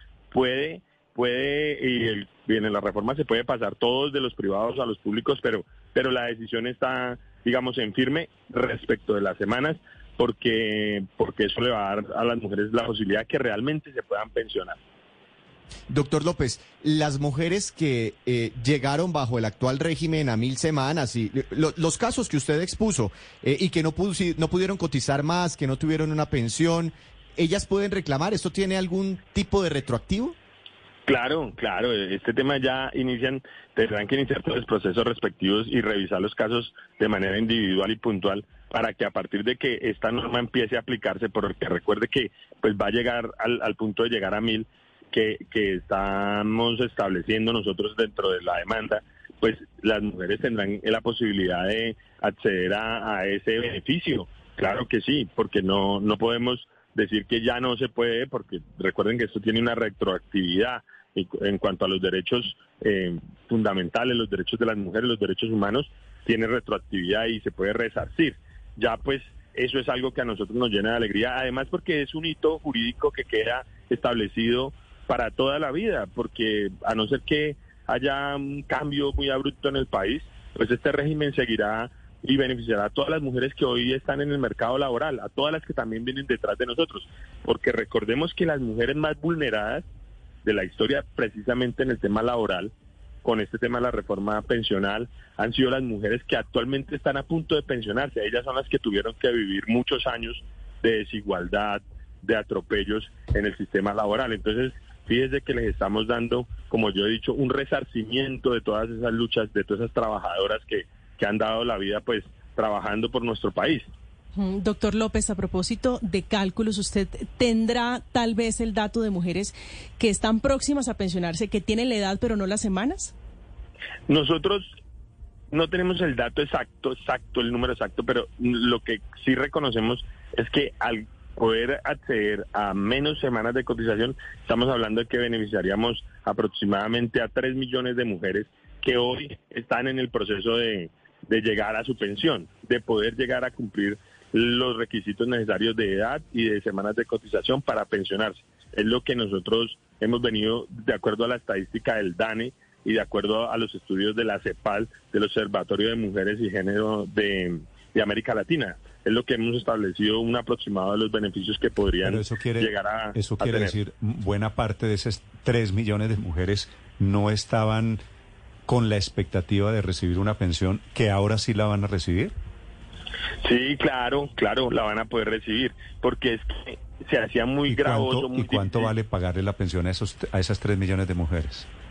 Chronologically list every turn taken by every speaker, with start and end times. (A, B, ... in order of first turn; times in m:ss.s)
0:00.3-0:14.8 A
0:15.9-0:30.4 B
0:31.1-1:29.9 A
1:30.4-1:32.7 A
1:33.2-1:53.9 A
1:54.4-2:03.1 C
2:04.1-2:04.7 A
2:05.5-2:43.8 A
2:42.0-2:48.0 D
2:48.7-2:52.3 D
2:53.4-2:58.9 A
2:57.7-3:01.7 D